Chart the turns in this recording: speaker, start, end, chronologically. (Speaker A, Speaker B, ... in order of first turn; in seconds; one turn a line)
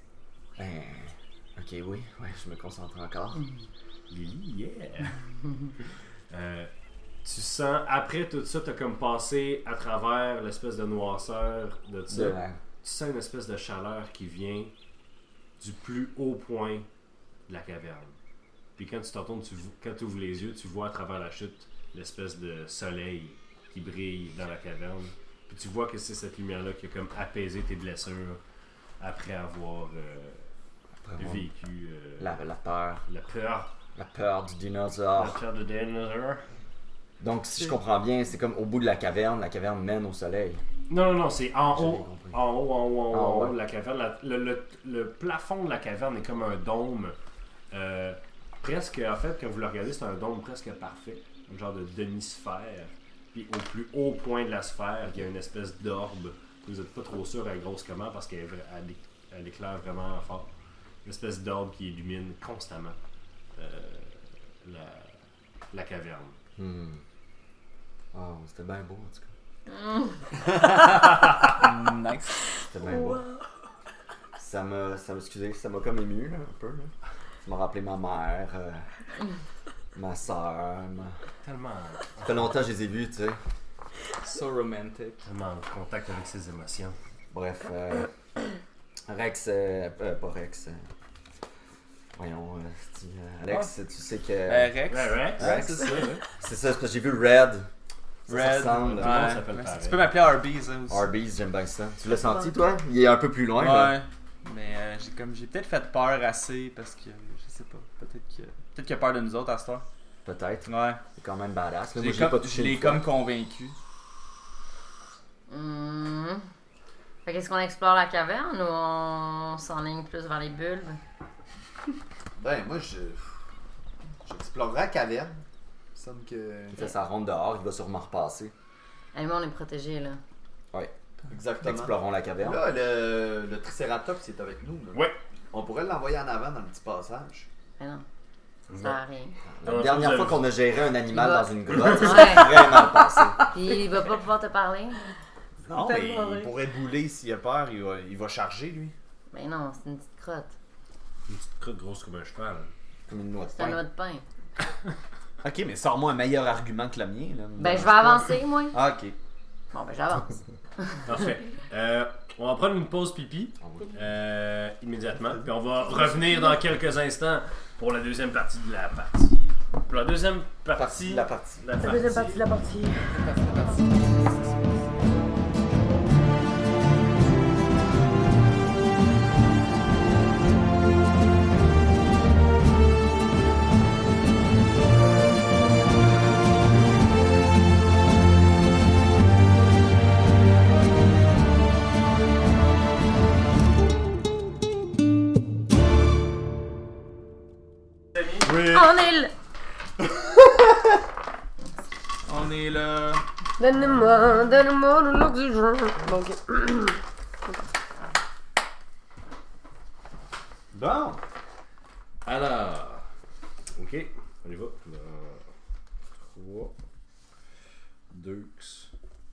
Speaker A: 0.6-3.4
Speaker B: 4.1-5.1
Speaker B: 6.3-6.7
Speaker B: 7.2-14.7
Speaker A: 12.1-12.6
Speaker B: 15.6-16.9
Speaker B: 17.5-18.1
Speaker B: 18.8-28.4
Speaker B: 29.0-30.5
Speaker A: 31.0-31.4
Speaker B: 31.2-32.4
Speaker A: 32.2-33.0
Speaker B: 33.1-33.7
Speaker A: 34.0-35.4
Speaker B: 35.1-36.5
Speaker A: 37.2-40.6
Speaker B: 40.9-47.1
Speaker A: 41.7-42.4
Speaker A: 43.1-43.5
Speaker B: 47.7-60.5
Speaker B: 61.0-63.0
Speaker B: 63.5-65.2
Speaker B: 65.7-66.4
Speaker A: 66.6-67.0
Speaker A: 68.1-69.3
Speaker C: 71.6-72.5
Speaker A: 72.7-73.2
Speaker D: 72.9-73.2
Speaker A: 74.4-78.9
Speaker A: 80.0-81.2
Speaker B: 81.4-82.5
Speaker A: 82.2-83.4
Speaker C: 84.2-85.3
Speaker B: 85.2-87.0
Speaker A: 87.3-88.1
Speaker A: 89.1-90.8
Speaker A: 92.2-94.8
Speaker C: 94.5-96.2
Speaker B: 94.9-96.2
Speaker A: 95.4-97.7
Speaker A: 98.3-99.4
Speaker C: 98.3-101.1
Speaker B: 98.7-100.1
Speaker A: 100.9-104.0
Speaker C: 103.6-109.8
Speaker A: 110.2-113.1
Speaker C: 110.7-111.0
Speaker C: 112.0-113.8
Speaker E: 115.5-116.5
Speaker E: 117.2-121.0
Speaker F: 122.4-123.2
Speaker F: 124.2-125.4
Speaker F: 126.0-126.8
Speaker A: 126.8-128.5
Speaker E: 129.1-130.2
Speaker F: 131.3-137.5
Speaker A: 131.6-132.6
Speaker E: 137.8-138.1
Speaker B: 138.7-139.0
Speaker E: 138.7-139.4
Speaker A: 139.5-143.4
Speaker B: 139.6-140.6
Speaker E: 141.1-142.7
Speaker B: 141.8-142.2
Speaker E: 143.5-145.0
Speaker F: 145.7-148.9
Speaker D: 145.8-146.6
Speaker E: 149.3-150.5
Speaker B: 151.3-152.7
Speaker A: 153.1-153.8
Speaker E: 153.5-154.2
Speaker F: 155.4-159.2
Speaker E: 157.6-158.8
Speaker E: 159.7-161.1
Speaker B: 161.1-172.4
Speaker A: 170.8-171.7
Speaker D: 171.8-173.4
Speaker C: 173.1-174.9
Speaker F: 198.4-198.9
Speaker E: 198.5-199.3
Speaker F: 200.0-200.7
Speaker C: 202.2-203.2
Speaker D: 203.6-207.0
Speaker F: 210.7-211.2
Speaker B: 212.2-213.1
Speaker B: 213.8-215.4
Speaker B: 216.3-216.7
Speaker B: 218.1-218.9